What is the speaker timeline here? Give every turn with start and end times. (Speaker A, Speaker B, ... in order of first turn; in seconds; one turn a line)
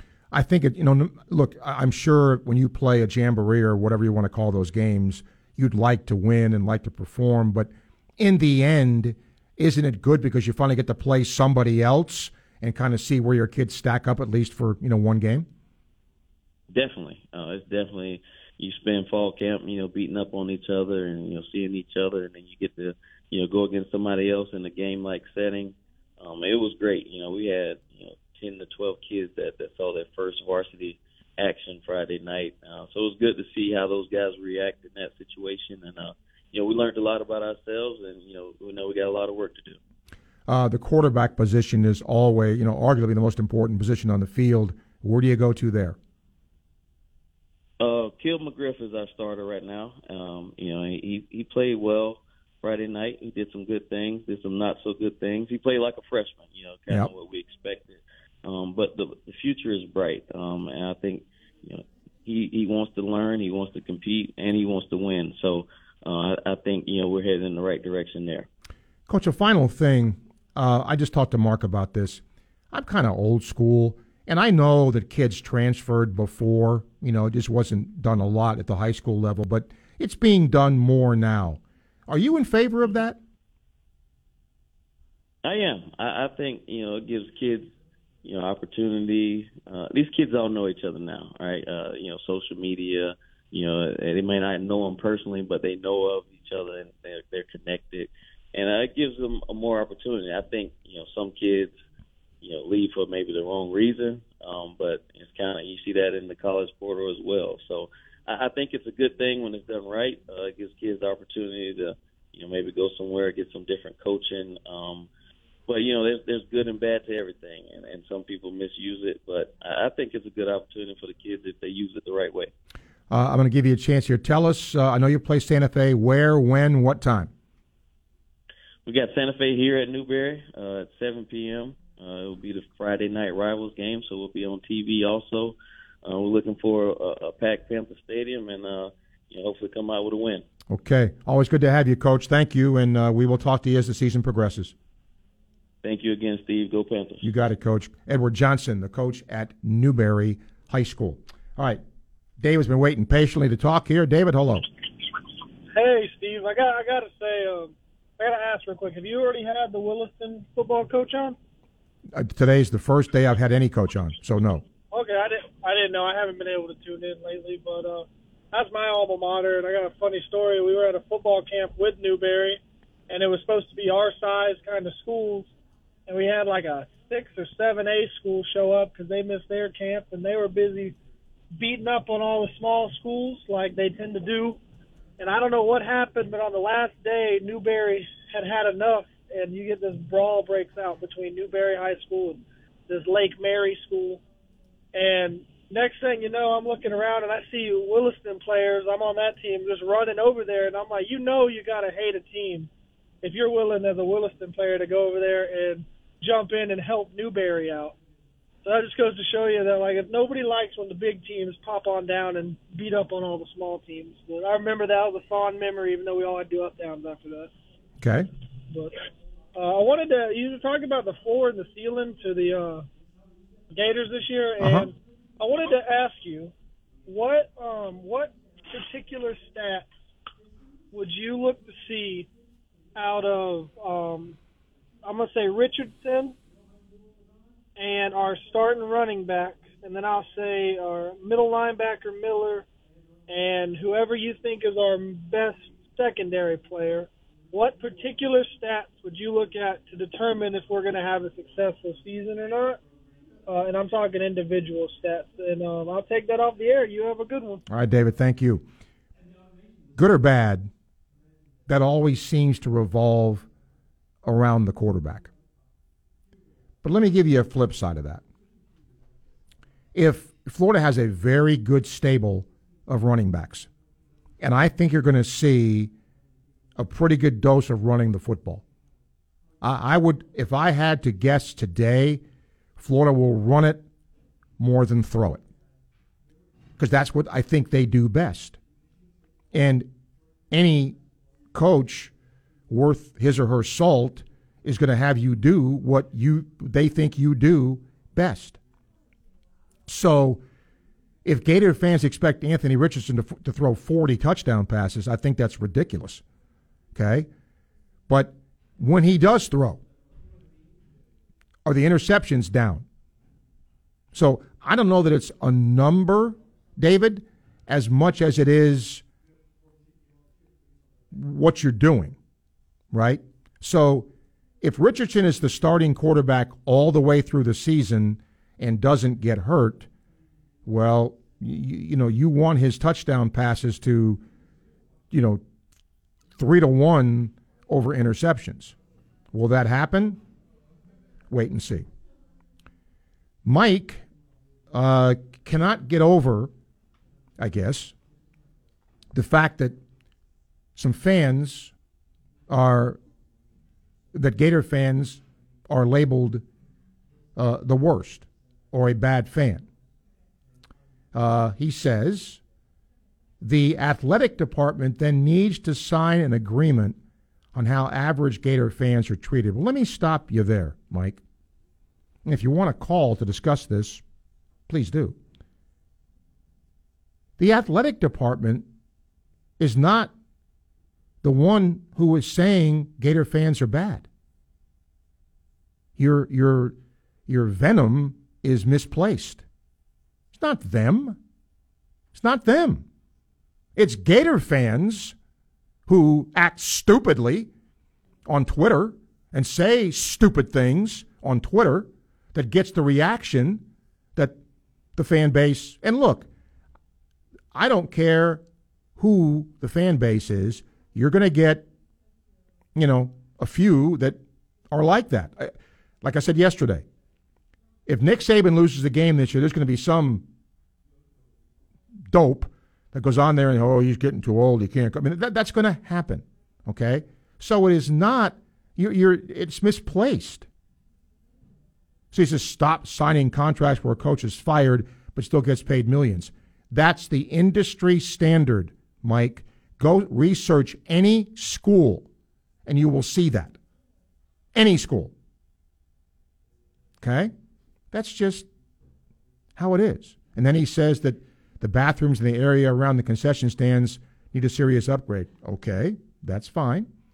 Speaker A: 0.3-15.5
Speaker B: 16.7-39.8
Speaker A: 40.5-46.0
Speaker B: 47.8-68.5
Speaker A: 69.1-83.2
Speaker B: 85.4-87.7
Speaker B: 88.2-101.8
Speaker B: 102.4-115.1
Speaker B: 115.7-122.5
Speaker A: 123.1-127.3
Speaker B: 128.8-140.4
Speaker A: 140.7-144.7
Speaker B: 145.8-147.2
Speaker A: 147.2-151.8
Speaker A: 152.4-154.7
Speaker C: 155.7-161.4
Speaker A: 162.1-164.6
Speaker C: 164.9-175.5
Speaker C: 176.1-180.9
Speaker C: 181.6-184.6
Speaker C: 185.2-194.2
Speaker C: 194.9-202.7
Speaker C: 203.2-207.9
Speaker C: 208.6-217.5
Speaker A: 218.0-218.3
Speaker C: 219.5-222.8
Speaker C: 223.7-226.5
Speaker A: 224.6-224.9
Speaker C: 227.1-229.9
Speaker C: 230.9-232.3
Speaker C: 232.9-234.3
Speaker C: 235.0-236.3
Speaker C: 237.8-242.6
Speaker C: 243.3-252.8
Speaker C: 253.5-257.6
Speaker A: 257.7-258.6
Speaker A: 259.9-260.7
Speaker A: 261.7-263.5
Speaker A: 264.2-265.3
Speaker A: 266.8-268.2
Speaker A: 269.9-273.7
Speaker A: 274.4-275.9
Speaker A: 276.8-278.6
Speaker A: 279.6-282.2
Speaker A: 282.8-283.8
Speaker A: 284.6-285.4
Speaker A: 286.8-288.6
Speaker A: 289.5-289.9
Speaker A: 290.5-290.9
Speaker A: 291.5-292.1
Speaker A: 292.7-298.6
Speaker A: 299.9-300.4
Speaker A: 301.2-306.2
Speaker A: 306.9-307.3
Speaker A: 308.1-309.8
Speaker A: 311.6-312.8
Speaker A: 314.1-319.0
Speaker A: 321.1-322.2
Speaker A: 322.9-324.1
Speaker A: 324.6-329.9
Speaker A: 330.6-334.2
Speaker A: 335.1-335.4
Speaker A: 336.4-338.7
Speaker A: 339.3-340.2
Speaker A: 341.3-341.9
Speaker A: 343.4-344.1
Speaker A: 344.7-346.5
Speaker A: 347.4-347.9
Speaker A: 349.1-349.8
Speaker A: 350.8-351.7
Speaker A: 352.5-353.0
Speaker A: 354.1-356.4
Speaker A: 357.4-359.6
Speaker A: 361.1-362.4
Speaker A: 363.4-367.0
Speaker A: 367.5-371.2
Speaker A: 372.2-374.0
Speaker A: 374.7-375.1
Speaker A: 377.4-378.7
Speaker A: 379.6-380.1
Speaker A: 381.2-384.1
Speaker A: 386.0-389.4
Speaker A: 390.3-391.2
Speaker A: 392.1-392.9
Speaker A: 393.8-395.1
Speaker A: 395.9-397.5
Speaker A: 398.2-403.6
Speaker A: 404.9-406.3
Speaker A: 407.5-408.4
Speaker A: 409.0-411.7
Speaker A: 412.7-414.2
Speaker A: 414.7-416.8
Speaker A: 417.9-420.2
Speaker A: 422.1-430.5
Speaker A: 432.1-442.1
Speaker A: 442.6-443.6
Speaker A: 444.5-445.1
Speaker A: 447.0-447.3
Speaker A: 447.9-448.5
Speaker A: 449.6-456.9